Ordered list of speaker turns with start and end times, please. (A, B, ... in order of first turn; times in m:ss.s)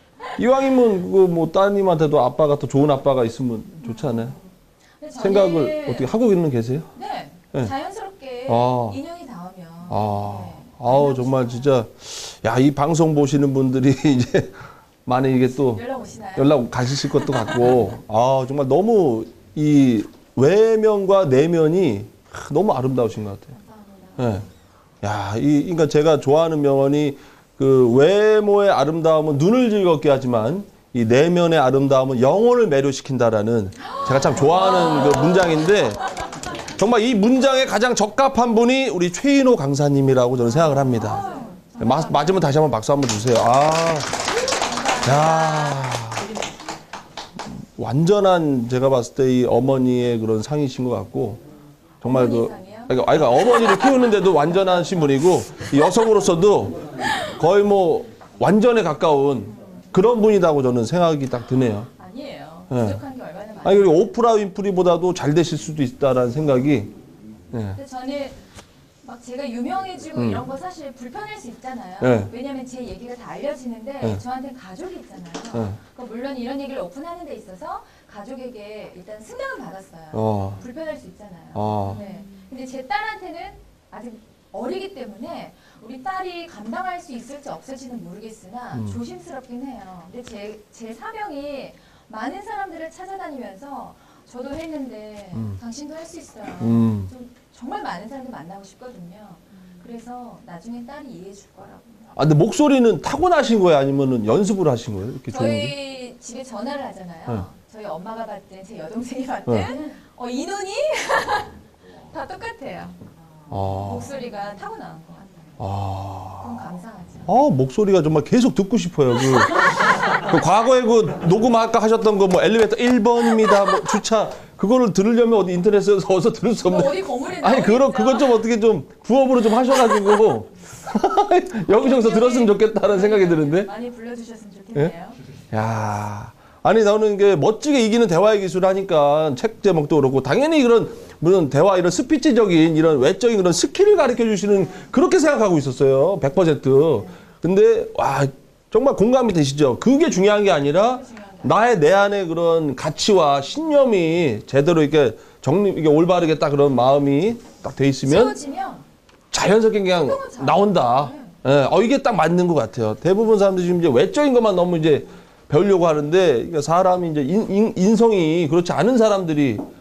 0:00.4-0:04.3 A
0:03.8-0:06.1 B
0:05.2-0:06.9 A
0:06.9-0:11.7 B
0:08.5-0:09.0 A
0:09.9-0:15.8 A
0:15.7-0:17.8 B
0:16.4-0:23.5 A
0:23.5-0:24.4 B
0:24.2-0:24.4 A
0:25.0-0:36.1 A
0:33.8-0:35.7 B
0:36.8-0:41.3 A
0:40.7-0:42.5 B
0:41.8-0:44.1 A
0:44.2-0:45.9 B
0:45.0-0:46.3 A
0:47.5-0:51.4 A
0:52.0-1:01.9 A
0:52.0-0:53.9 B
0:59.5-0:59.9 B
1:01.9-1:04.1 B
1:02.7-1:03.0 A
1:03.6-1:06.9 A
1:07.5-1:07.8 A
1:07.8-1:08.4 B
1:09.0-1:42.1 B
1:10.1-1:10.5 A
1:12.0-1:12.3 A
1:15.5-1:15.8 A
1:20.1-1:20.6 A
1:21.5-1:22.0 A
1:28.7-1:29.0 A
1:35.3-1:35.6 A
1:36.6-1:37.1 A
1:42.1-1:45.7 A
1:45.3-1:53.0 B
1:53.5-1:54.2 A
1:53.6-1:55.6 B
1:55.6-1:56.7 A
1:56.4-1:57.3 B
1:57.2-2:13.7 A
1:59.2-2:00.1 B
2:06.6-2:08.4 B
2:09.8-2:10.2 B
2:11.7-2:15.2 B
2:15.5-2:38.3 A
2:30.8-2:31.6 B
2:38.0-2:38.8 B
2:39.3-2:49.6 A
2:39.9-2:41.4 B